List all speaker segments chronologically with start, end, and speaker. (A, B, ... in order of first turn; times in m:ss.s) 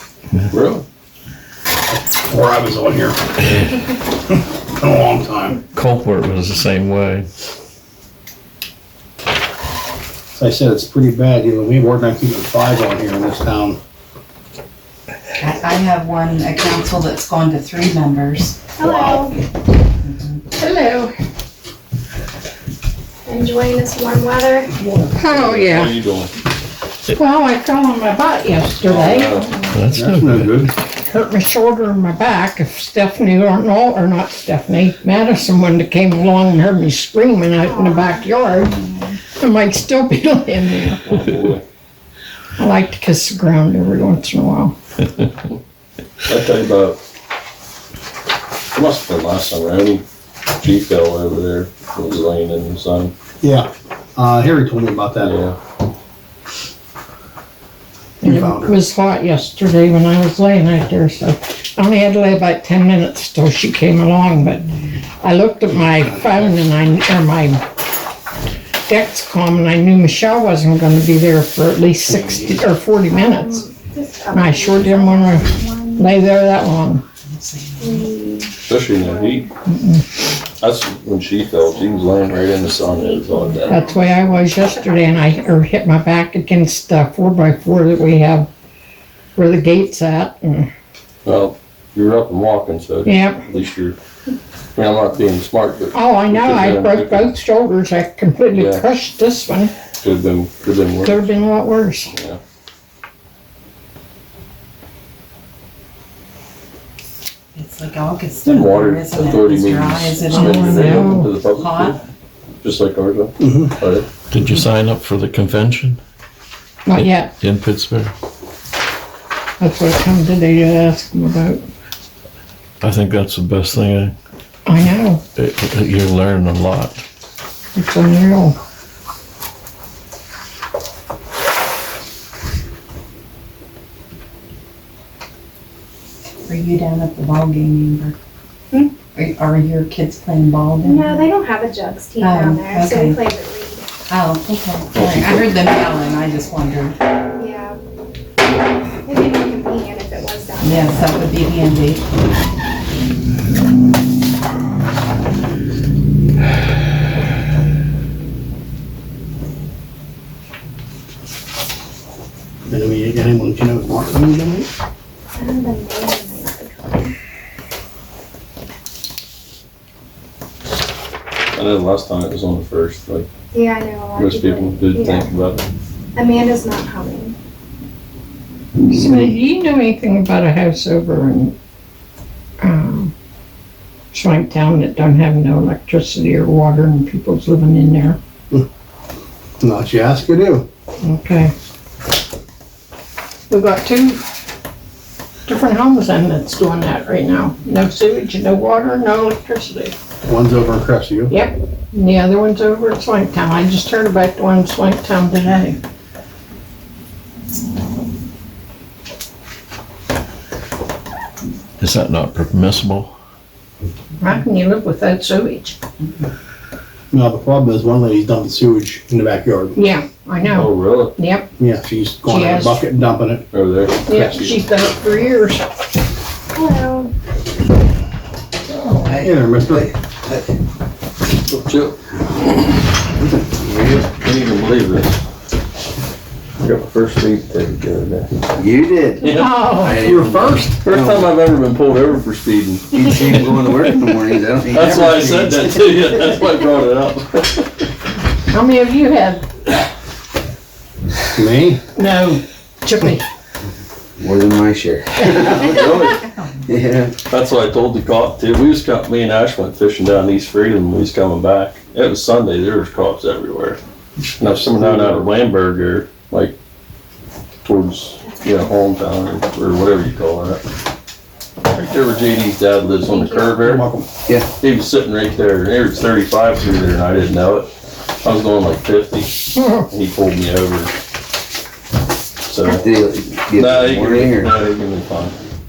0:00.5-0:00.8 A
0:01.9-0:03.2 B
0:04.3-0:05.6 B
0:05.7-0:07.3 C
0:10.3-0:13.8 B
0:15.4-0:18.7 D
0:18.8-0:19.4 E
0:20.0-0:20.4 D
0:20.6-0:21.1 F
0:23.3-0:24.7 E
0:24.8-0:26.0 F
0:25.1-0:26.3 A
0:27.1-0:29.8 F
0:28.8-0:29.5 A
0:29.7-0:30.6 C
0:30.1-0:30.7 B
0:30.9-0:38.8 F
0:37.6-0:39.2 E
0:39.4-0:41.4 F
0:41.0-0:41.6 A
0:42.6-0:44.7 F
0:46.3-0:47.0 A
0:48.7-0:50.0 A
0:50.6-0:53.1 A
0:53.4-0:55.3 B
0:55.2-0:55.6 A
0:58.2-1:04.7 F
0:58.2-0:58.8 B
1:05.2-1:07.6 F
1:08.9-1:13.6 F
1:13.1-1:16.1 E
1:14.3-1:17.0 F
1:17.3-1:18.1 D
1:17.8-1:19.5 E
1:18.6-1:19.5 A
1:19.7-1:20.0 F
1:20.6-1:23.8 A
1:22.8-1:25.0 E
1:23.7-1:28.5 F
1:29.4-1:30.7 F
1:31.2-1:34.0 A
1:33.0-1:33.4 F
1:34.8-1:37.3 A
1:35.9-1:39.7 F
1:38.5-1:38.8 A
1:40.0-1:41.3 A
1:41.0-1:42.1 F
1:42.1-1:42.4 A
1:47.6-1:52.0 D
1:48.4-1:52.0 A
1:50.3-1:51.3 F
1:52.6-1:54.1 A
1:53.4-1:53.7 B
1:54.3-1:56.0 C
1:56.9-1:57.3 F
1:57.0-1:58.1 C
1:59.6-2:01.6 F
2:02.8-2:04.2 C
2:04.7-2:05.2 F
2:05.4-2:07.0 C
2:07.8-2:08.6 F
2:16.5-2:18.2 D
2:18.7-2:19.0 E
2:19.1-2:21.3 D
2:20.8-2:23.9 E
2:22.2-2:23.2 D
2:24.1-2:27.0 D
2:27.4-2:27.8 E
2:29.0-2:31.2 E
2:30.6-2:32.0 D
2:42.7-2:44.7 B
2:45.4-2:47.1 E
2:51.5-2:53.3 A
2:53.5-2:55.4 E
2:54.2-2:55.6 A
2:56.2-2:57.4 E
2:58.9-3:01.6 F
3:02.6-3:03.1 F
3:04.1-3:08.2 F
3:09.6-3:10.7 B
3:11.0-3:11.5 F
3:13.5-3:14.2 F
3:15.5-3:20.0 F
3:20.3-3:21.3 B
3:21.3-3:25.8 F
3:31.8-3:33.1 C
3:34.2-3:35.8 F
3:37.1-3:39.8 B
3:39.8-3:41.5 F
3:40.5-3:41.2 A
3:41.6-3:43.5 B
3:42.2-3:42.8 F
3:43.5-3:44.6 A
3:44.1-3:45.6 F
3:44.1-3:44.5 B
3:46.5-3:47.1 E
3:48.7-3:49.2 F
3:49.0-3:50.5 G
3:49.2-3:49.8 B
3:51.5-3:52.1 A
3:53.4-3:54.1 G
3:54.0-3:55.2 A
3:56.6-3:58.4 A
3:58.6-4:01.3 G
3:59.2-4:04.0 A
3:59.3-4:00.2 F
4:00.1-4:00.8 B
4:02.9-4:05.8 G
4:04.7-4:07.7 A
4:08.5-4:09.4 F
4:11.4-4:11.8 B
4:12.0-4:13.2 F
4:14.2-4:15.7 G
4:15.2-4:15.5 F
4:15.6-4:16.3 A
4:16.6-4:17.2 G
4:17.3-4:23.8 A
4:24.4-4:26.6 A
4:24.8-4:25.2 G
4:27.6-4:30.6 A
4:31.7-4:33.9 A
4:33.1-4:33.8 E
4:33.7-4:34.1 B
4:34.2-4:34.5 G
4:34.6-4:37.7 A
4:38.2-4:40.9 A
4:39.6-4:39.9 F
4:42.4-4:42.9 A
4:42.7-4:44.5 G
4:43.5-4:45.4 A